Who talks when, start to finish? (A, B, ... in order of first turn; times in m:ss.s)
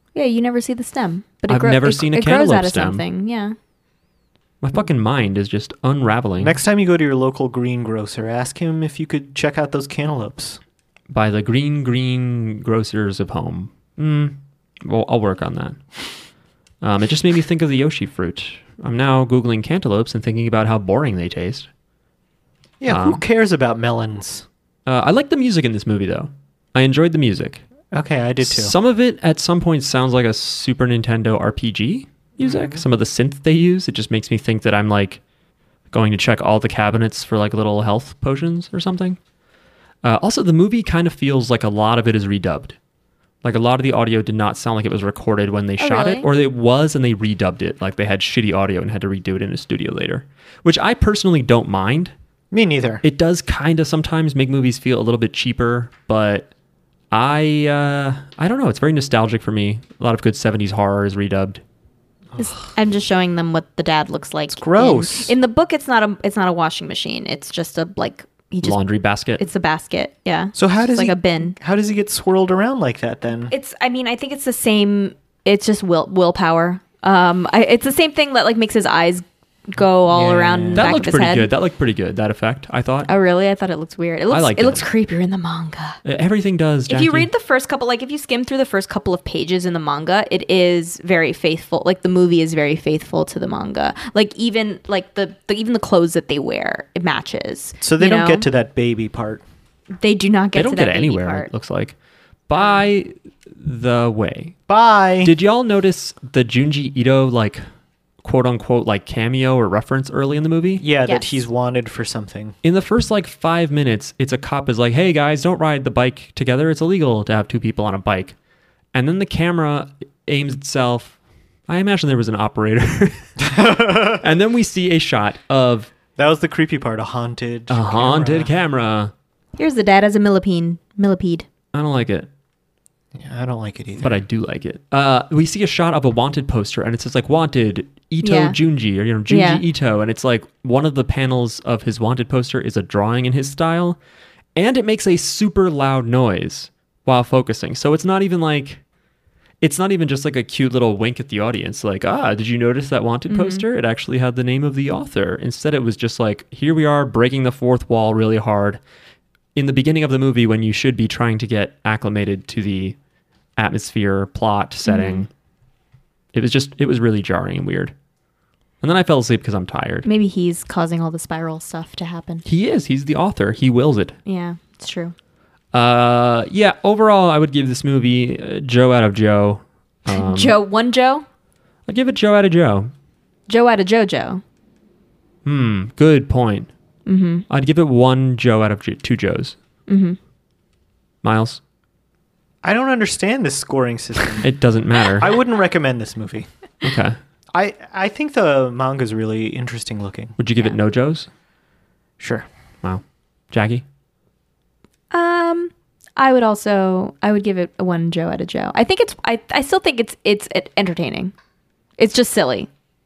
0:00.2-0:03.6 A
0:01.5-0:03.0 B
0:04.6-0:06.6 B
0:06.4-0:10.6 C
0:11.1-0:16.0 B
0:16.8-0:21.7 B
0:22.8-0:24.5 C
0:22.9-0:23.2 B
0:24.9-0:27.6 B
0:27.9-0:28.7 C
0:28.4-0:35.2 B
0:32.4-0:32.8 C
0:35.9-0:39.2 B
0:40.0-0:42.8 B
0:43.4-0:52.1 B
0:45.8-0:46.3 A
0:52.5-0:53.0 C
0:53.0-0:56.5 B
0:57.1-1:01.6 B
1:02.4-1:08.8 A
1:04.5-1:05.4 C
1:08.6-1:09.4 B
1:09.4-1:11.6 A
1:10.5-1:13.5 C
1:13.5-1:21.5 A
1:20.1-1:21.1 C
1:20.8-1:23.1 B
1:23.1-1:26.0 A
1:24.3-1:24.9 B
1:26.0-1:27.3 B
1:26.9-1:38.5 A
1:37.8-1:39.4 C
1:40.0-1:41.5 A
1:40.6-1:42.0 B
1:42.5-1:44.6 B
1:44.7-1:45.3 C
1:45.2-1:47.6 B
1:48.2-1:50.8 B
1:50.8-1:52.6 C
1:51.1-1:51.4 A
1:52.6-1:58.4 B
1:58.9-2:01.2 B
2:01.7-2:05.9 B
2:03.4-2:04.3 C
2:06.2-2:08.5 C
2:07.7-2:09.1 B
2:09.6-2:11.5 A
2:11.7-2:12.3 B
2:13.1-2:14.2 C
2:14.0-2:24.0 B
2:18.2-2:18.6 A
2:19.3-2:19.6 A
2:24.6-2:28.8 B
2:29.6-2:38.8 B
2:33.3-2:33.6 A
2:39.6-2:43.0 B
2:43.6-2:45.3 B
2:44.8-2:45.3 A
2:46.3-2:47.9 B
2:48.8-2:50.1 B
2:50.0-2:52.4 A
2:52.5-2:54.2 B
2:54.3-2:55.1 A
2:55.7-3:00.6 B
3:00.1-3:01.2 A
3:01.9-3:02.9 B
3:03.5-3:04.4 A
3:05.4-3:06.7 B
3:07.1-3:07.5 A
3:07.5-3:09.6 B
3:09.9-3:10.2 A
3:11.2-3:11.6 B
3:12.6-3:14.5 C
3:14.4-3:15.4 B
3:15.2-3:16.5 C
3:16.8-3:17.2 B
3:17.5-3:20.4 C
3:20.4-3:21.3 B
3:22.2-3:22.5 C
3:22.8-3:23.8 B
3:25.1-3:31.3 A
3:32.0-3:32.7 A